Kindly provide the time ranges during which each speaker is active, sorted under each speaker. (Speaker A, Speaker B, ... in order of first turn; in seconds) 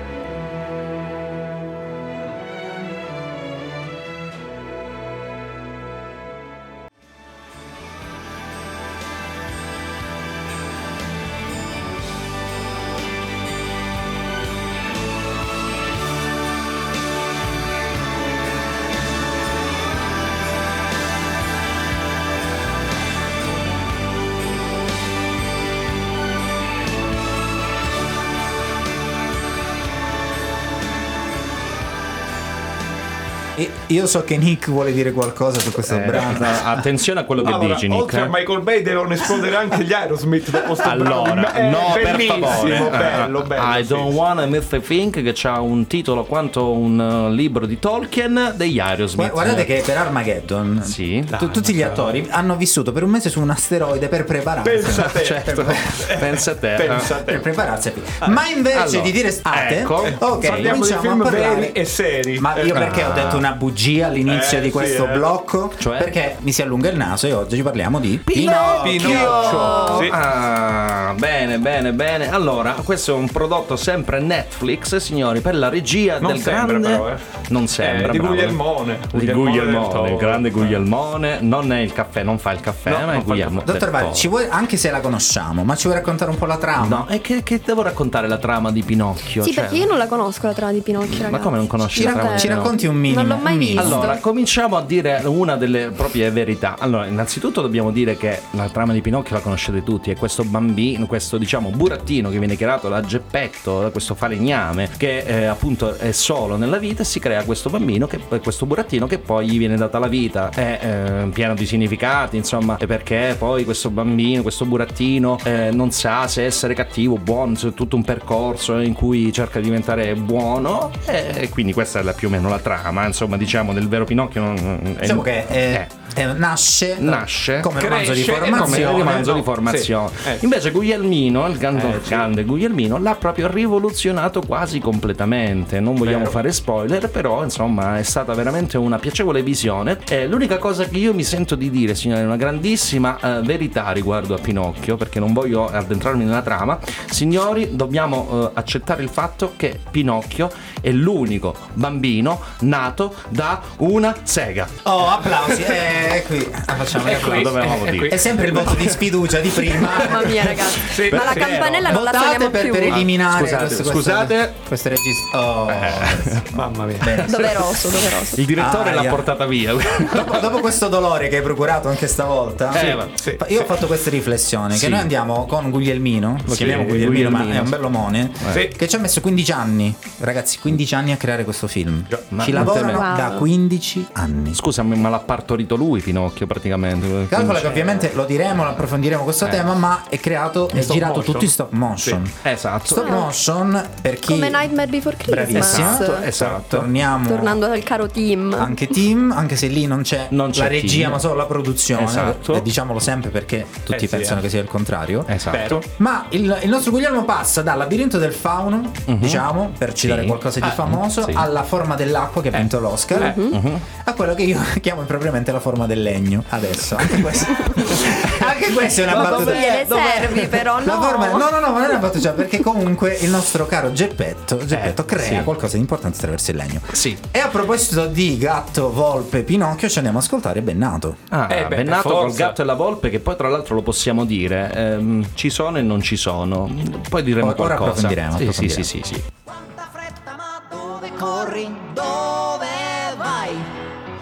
Speaker A: 33.5-36.9, 42.3-42.8, 49.1-56.1, 57.1-61.8, 62.4-70.1, 83.5-87.1, 91.9-94.2, 125.0-129.4, 154.8-160.7, 161.8-167.6, 168.5-169.4, 169.9-184.6, 187.3-194.7, 195.2-197.6, 198.5-231.2, 237.4-238.9
Speaker B: 35.9-38.3, 40.8-49.7, 50.8-51.5, 54.9-57.1, 58.7-60.7, 62.7-63.4, 65.8-66.1, 68.2-78.6, 79.1-84.3, 86.8-89.9, 91.1-92.7, 93.8-125.9, 127.0-127.8, 128.4-154.7, 157.1-159.0, 159.7-161.8, 162.9-164.5, 165.7-166.4, 167.0-170.6, 172.7-173.1, 174.7-175.1, 176.4-177.8, 182.3-183.1, 184.5-188.1, 192.4-193.2, 195.5-196.9, 200.3-201.2, 201.9-202.6, 205.3-205.8, 209.1-209.4, 210.0-211.4, 213.5-213.8, 217.8-220.5, 224.7-225.5, 226.9-227.2, 231.3-239.2
Speaker C: 37.4-44.1, 51.3-52.1, 54.6-57.5, 60.0-62.8, 64.3-65.2, 68.8-70.2, 76.2-80.8, 82.9-83.5, 127.8-130.4, 131.7-132.2, 136.0-136.3, 157.0-158.7, 160.9-161.8, 166.5-167.1, 172.7-173.6, 178.5-178.7, 190.7-192.2, 203.9-204.4, 205.5-205.8, 213.1-213.4, 231.5-232.6
Speaker D: 89.4-94.2, 159.9-163.0, 167.3-168.4, 182.7-183.4, 192.9-193.3, 194.3-196.2, 197.2-198.8, 213.1-213.5, 219.1-221.5
Speaker E: 239.4-243.7